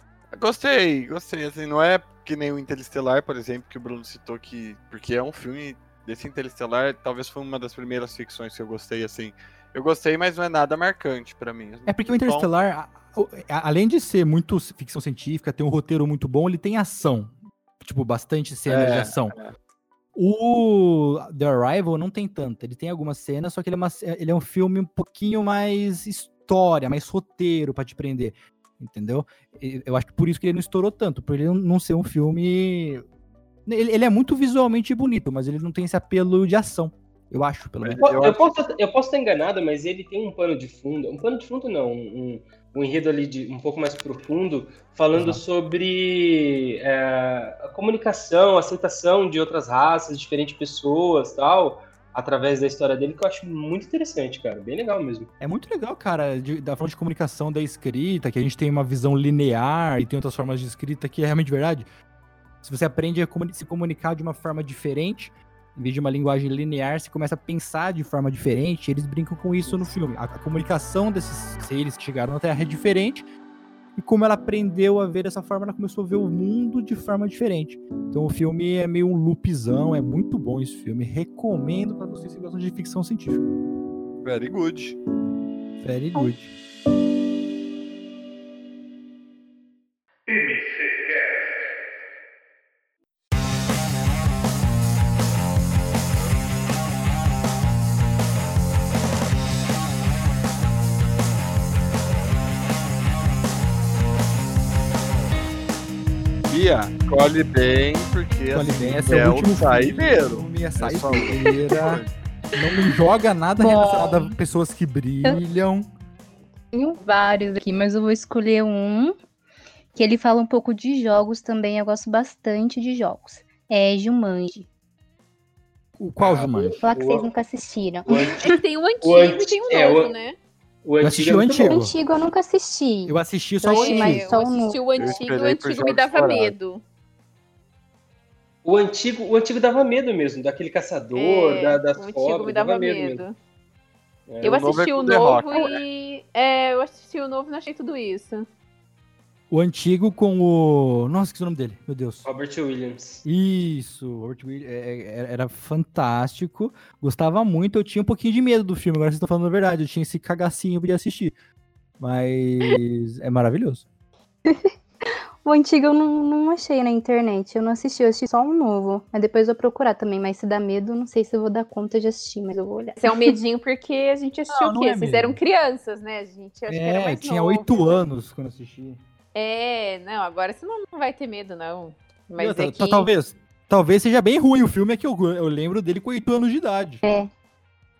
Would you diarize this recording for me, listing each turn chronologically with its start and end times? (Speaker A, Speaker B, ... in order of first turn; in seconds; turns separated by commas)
Speaker A: 0.3-12.5, Speaker B: 11.9-19.3, Speaker A: 18.7-19.5, Speaker B: 20.1-33.0, Speaker B: 33.6-38.0, Speaker A: 37.8-38.4, Speaker C: 38.0-55.3, Speaker B: 45.1-45.4, Speaker B: 55.4-61.9, Speaker B: 62.6-73.2, Speaker B: 74.0-83.5, Speaker A: 84.2-85.0, Speaker B: 85.8-86.5, Speaker A: 106.5-112.1, Speaker B: 108.5-112.0, Speaker B: 112.5-115.9, Speaker D: 113.6-114.3, Speaker D: 116.7-119.1, Speaker D: 119.9-124.7, Speaker B: 126.0-126.8, Speaker A: 126.2-126.5, Speaker C: 126.5-127.3, Speaker D: 126.8-128.3, Speaker C: 128.1-128.4, Speaker E: 128.1-130.3, Speaker C: 129.0-130.1, Speaker C: 130.8-131.8, Speaker B: 131.0-131.9, Speaker D: 131.6-134.9, Speaker B: 133.1-134.3, Speaker E: 133.6-136.8, Speaker A: 135.0-136.5, Speaker C: 138.6-143.2, Speaker E: 141.1-143.3, Speaker C: 144.3-144.6, Speaker E: 144.4-148.5, Speaker A: 144.4-145.8, Speaker B: 149.5-152.3, Speaker C: 152.2-153.2, Speaker B: 153.2-161.3, Speaker B: 162.0-163.9, Speaker D: 165.4-173.3, Speaker E: 173.0-178.0, Speaker B: 174.5-175.4, Speaker B: 176.7-179.0, Speaker E: 179.3-183.1, Speaker B: 182.4-187.0, Speaker D: 187.0-187.3